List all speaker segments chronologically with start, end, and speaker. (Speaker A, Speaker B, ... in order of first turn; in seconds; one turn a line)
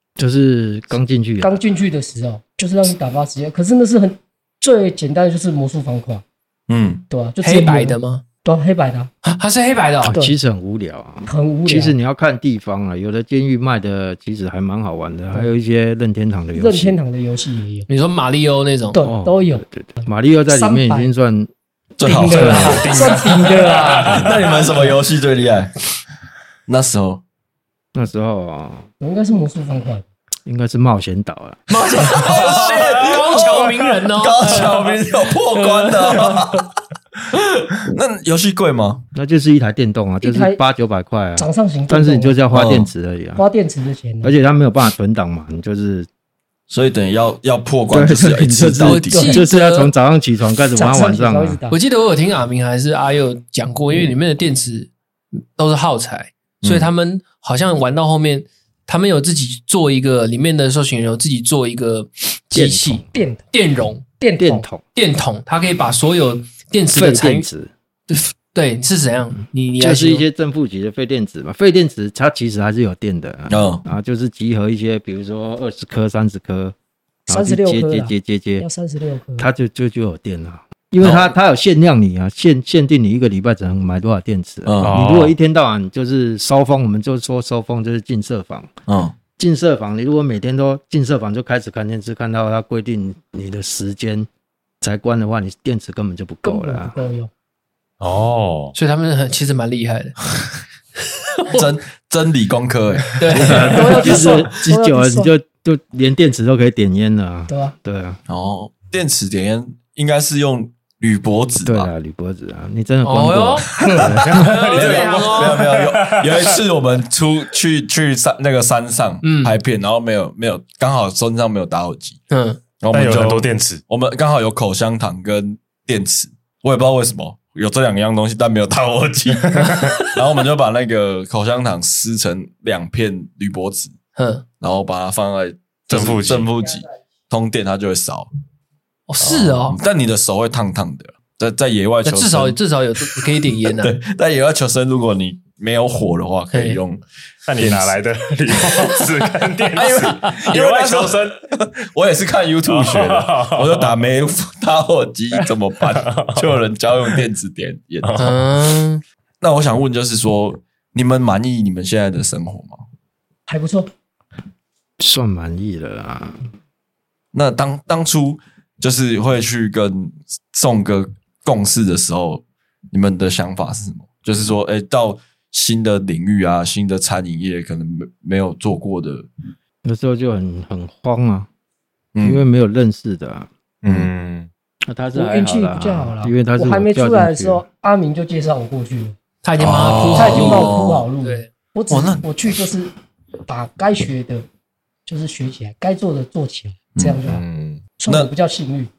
Speaker A: 0.2-1.6
Speaker B: 1.4-6.2
Speaker C: 6.7-7.0
Speaker B: 7.1-9.1
Speaker D: 7.4-8.2
Speaker D: 9.2-10.2
Speaker A: 10.0-17.0
Speaker B: 11.3-11.9
Speaker B: 16.6-17.9
Speaker D: 17.9-19.0
Speaker B: 18.9-21.1
Speaker A: 19.0-21.5
Speaker C: 22.0-22.9
Speaker B: 22.1-24.2
Speaker A: 22.3-22.9
Speaker E: 22.4-24.4
Speaker C: 23.9-25.9
Speaker C: 26.7-27.2
Speaker A: 27.9-28.9
Speaker B: 29.0-30.1
Speaker A: 30.4-31.6
Speaker D: 31.7-34.9
Speaker C: 32.1-33.6
Speaker C: 34.1-36.7
Speaker D: 35.6-36.4
Speaker C: 37.3-39.0
Speaker A: 39.1-43.5
Speaker B: 40.2-40.6
Speaker B: 41.4-42.4
Speaker C: 42.5-42.9
Speaker B: 43.4-44.3
Speaker A: 44.2-46.1
Speaker C: 46.7-49.2
Speaker A: 47.9-51.6
Speaker D: 48.8-49.9
Speaker B: 49.1-49.4
Speaker B: 50.7-51.8
Speaker D: 51.7-64.1
Speaker C: 56.6-56.9
Speaker A: 62.5-63.1
Speaker B: 63.1-63.5
Speaker B: 64.2-64.7
Speaker A: 64.4-64.8
Speaker D: 65.0-67.5
Speaker A: 66.9-67.7
Speaker D: 68.1-70.2
Speaker A: 69.8-76.7
Speaker C: 73.5-73.8
Speaker A: 77.3-78.7
Speaker B: 77.3-79.5
Speaker A: 79.4-88.7
Speaker C: 81.0-81.3
Speaker C: 84.7-85.1
Speaker E: 84.8-85.3
Speaker C: 88.9-89.1
Speaker A: 89.4-94.3
Speaker A: 94.8-97.0
Speaker B: 96.5-97.3
Speaker E: 98.0-98.7
Speaker D: 98.7-100.2
Speaker C: 101.5-103.8
Speaker D: 103.1-104.3
Speaker A: 103.3-108.2
Speaker B: 103.7-105.3
Speaker B: 107.5-107.7
Speaker C: 108.3-111.9
Speaker A: 111.6-114.5
Speaker D: 113.0-113.7
Speaker C: 113.8-122.2
Speaker D: 114.3-115.6
Speaker E: 114.3-116.4
Speaker D: 119.2-119.6
Speaker D: 122.3-122.6
Speaker C: 122.8-133.9
Speaker E: 122.9-123.8
Speaker E: 129.4-130.0
Speaker D: 134.2-134.4
Speaker C: 134.6-138.3
Speaker E: 135.9-136.5
Speaker D: 139.1-139.8
Speaker C: 139.2-143.2
Speaker D: 142.1-143.9
Speaker C: 143.8-147.0
Speaker D: 146.5-146.8
Speaker E: 147.5-151.4
Speaker C: 147.6-147.9
Speaker C: 149.8-158.3
Speaker E: 152.7-153.9
Speaker E: 155.4-156.5
Speaker E: 158.0-158.4
Speaker D: 158.2-159.0
Speaker C: 159.4-162.8
Speaker B: 163.5-163.9
Speaker A: 165.0-166.5
Speaker C: 167.3-179.3
Speaker A: 179.8-181.5
Speaker C: 182.1-182.4
Speaker A: 182.2-183.5
Speaker E: 183.8-184.5
Speaker C: 183.9-184.1
Speaker A: 184.9-187.6
Speaker B: 185.1-189.2
Speaker D: 189.4-191.5
Speaker C: 189.6-191.1
Speaker B: 190.1-192.9
Speaker C: 191.9-192.4
Speaker B: 193.4-194.4
Speaker B: 195.1-197.4
Speaker C: 196.9-197.2
Speaker E: 197.3-197.8
Speaker B: 198.0-198.9
Speaker C: 198.1-198.3